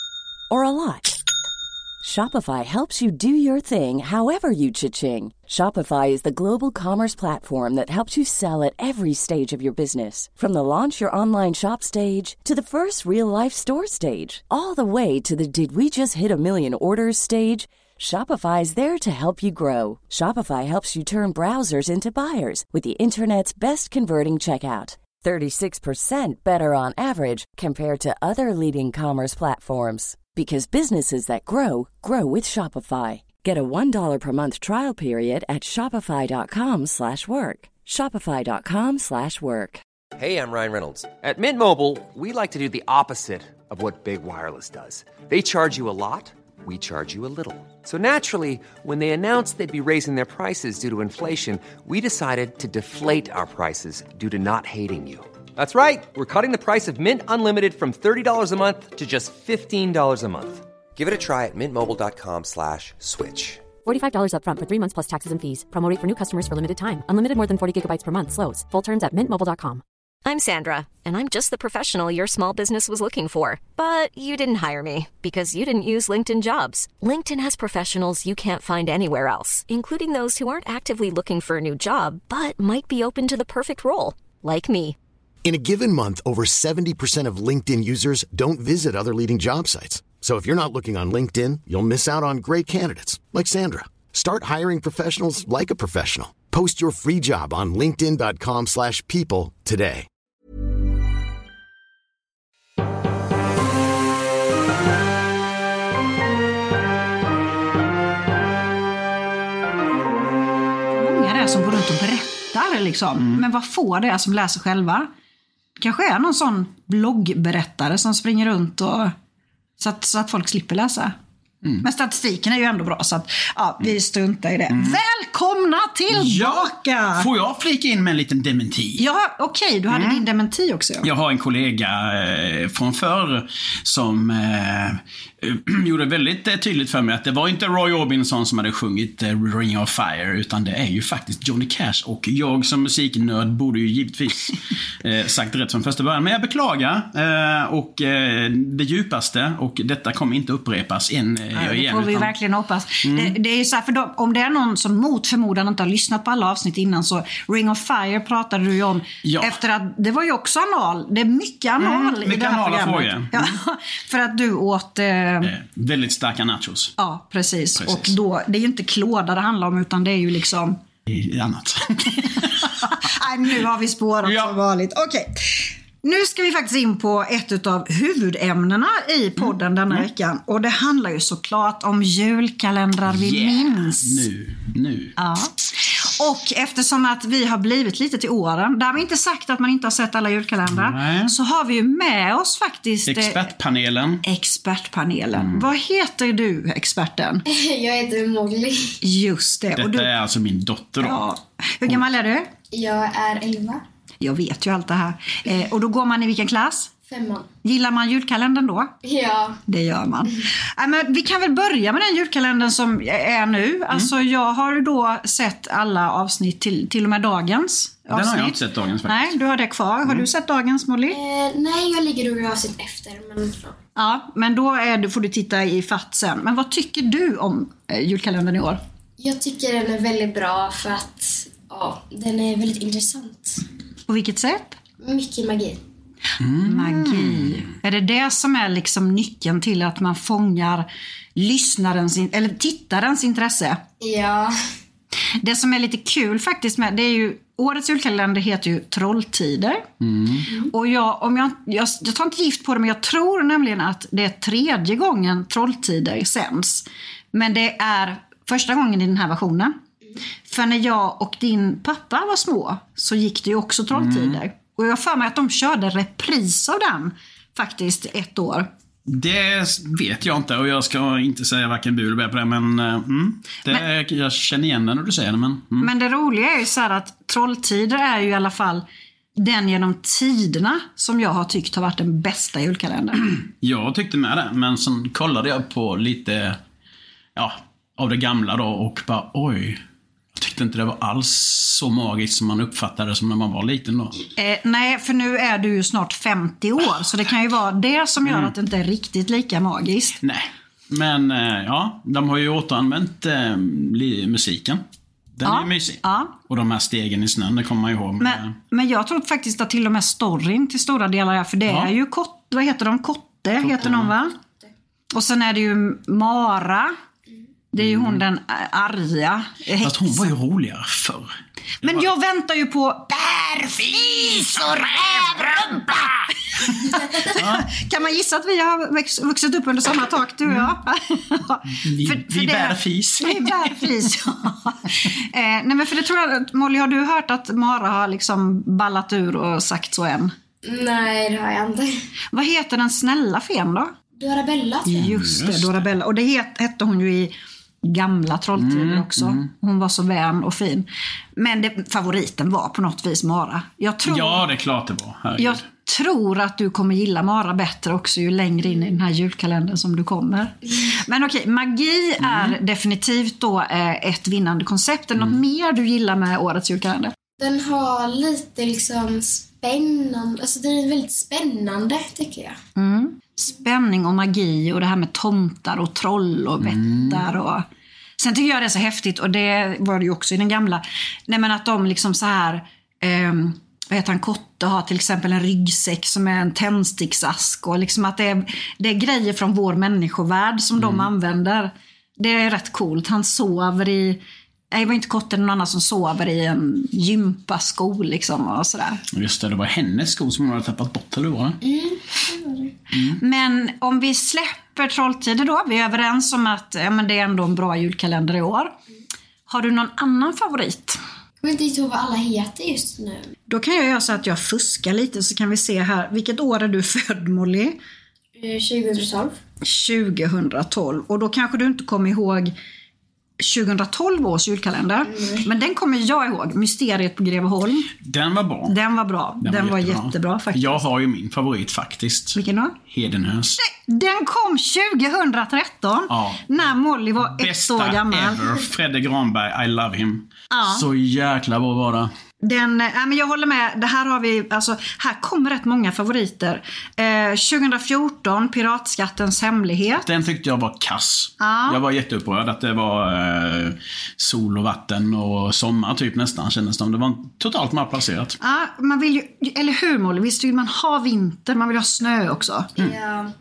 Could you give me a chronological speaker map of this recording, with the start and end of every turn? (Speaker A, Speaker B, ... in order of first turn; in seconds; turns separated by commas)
Speaker A: 0.5-1.2, Speaker A: 2.0-39.8, Speaker B: 40.2-63.6, Speaker C: 63.8-69.8, Speaker D: 70.2-85.0, Speaker E: 85.4-100.1, Speaker F: 110.9-115.1, Speaker F: 115.8-119.1, Speaker F: 119.8-121.1, Speaker F: 121.8-127.3, Speaker G: 124.7-125.0, Speaker G: 126.1-129.0, Speaker F: 129.0-131.1, Speaker G: 129.9-130.2, Speaker G: 131.0-152.3, Speaker F: 151.6-165.5, Speaker G: 153.0-153.3, Speaker G: 159.2-159.6, Speaker G: 161.8-163.6, Speaker G: 165.4-166.9, Speaker F: 167.0-170.8, Speaker G: 167.8-168.1, Speaker G: 171.1-172.9, Speaker F: 172.4-184.2, Speaker G: 174.2-174.5, Speaker G: 179.4-180.1, Speaker G: 183.1-185.2, Speaker F: 185.2-193.4, Speaker G: 190.7-191.3, Speaker G: 193.1-194.2, Speaker F: 194.2-197.4, Speaker G: 195.3-195.7, Speaker H: 197.4-199.0, Speaker F: 199.0-200.1, Speaker G: 199.8-201.2, Speaker F: 201.0-202.5, Speaker H: 202.7-203.8, Speaker F: 204.2-206.9, Speaker H: 207.0-207.5, Speaker F: 207.6-208.9, Speaker H: 209.0-209.6, Speaker F: 209.7-221.2, Speaker G: 218.1-219.3, Speaker H: 221.1-223.8, Speaker F: 223.9-228.8, Speaker H: 229.2-233.7, Speaker F: 234.1-234.8, Speaker H: 235.0-235.8, Speaker G: 236.4-237.5, Speaker F: 236.6-243.8, Speaker H: 244.0-244.6, Speaker F: 245.4-249.8, Speaker G: 250.0-250.4, Speaker F: 250.7-259.8, Speaker F: 260.5-268.7, Speaker G: 263.9-264.4, Speaker G: 269.1-275.9, Speaker F: 275.8-278.8, Speaker F: 279.4-283.4, Speaker G: 283.4-286.6, Speaker G: 287.4-289.8, Speaker G: 290.3-294.2, Speaker F: 294.4-300.2, Speaker G: 298.2-298.5, Speaker G: 300.2-304.8, Speaker G: 305.4-308.5, Speaker F: 305.4-306.3, Speaker F: 308.2-314.4, Speaker G: 313.6-314.1, Speaker F: 315.1-316.9, Speaker F: 317.7-320.3, Speaker G: 317.8-318.2, Speaker G: 319.8-322.0, Speaker F: 321.8-325.9, Speaker G: 324.7-327.7, Speaker F: 326.5-340.3, Speaker G: 330.5-330.7, Speaker G: 331.7-333.9, Speaker H: 340.6-342.0, Speaker F: 342.3-343.9, Speaker H: 344.1-345.0, Speaker F: 344.8-354.4, Speaker G: 344.9-345.8, Speaker G: 348.6-349.4, Speaker G: 354.0-355.6, Speaker F: 355.4-367.1, Speaker G: 362.2-362.6, Speaker H: 367.4-372.6, Speaker F: 372.8-377.6, Speaker G: 376.6-377.2, Speaker F: 378.2-399.0, Speaker G: 390.8-391.1, Speaker G: 399.1-401.6, Speaker H: 401.6-402.7, Speaker G: 402.9-403.2, Speaker F: 403.2-408.7, Speaker F: 409.5-411.0, Speaker H: 411.4-413.3, Speaker F: 413.5-417.8, Speaker H: 418.4-419.4, Speaker F: 419.6-422.5, Speaker F: 423.4-427.9, Speaker H: 425.1-425.4, Speaker G: 428.0-428.8, Speaker F: 428.7-430.8, Speaker G: 429.4-433.6, Speaker F: 432.3-432.8, Speaker F: 433.6-438.4, Speaker G: 436.1-436.4, Speaker G: 437.2-442.1, Speaker F: 440.5-440.9, Speaker F: 442.4-450.1, Speaker G: 450.0-458.4, Speaker F: 451.4-451.8, Speaker F: 458.4-462.7, Speaker H: 462.8-463.3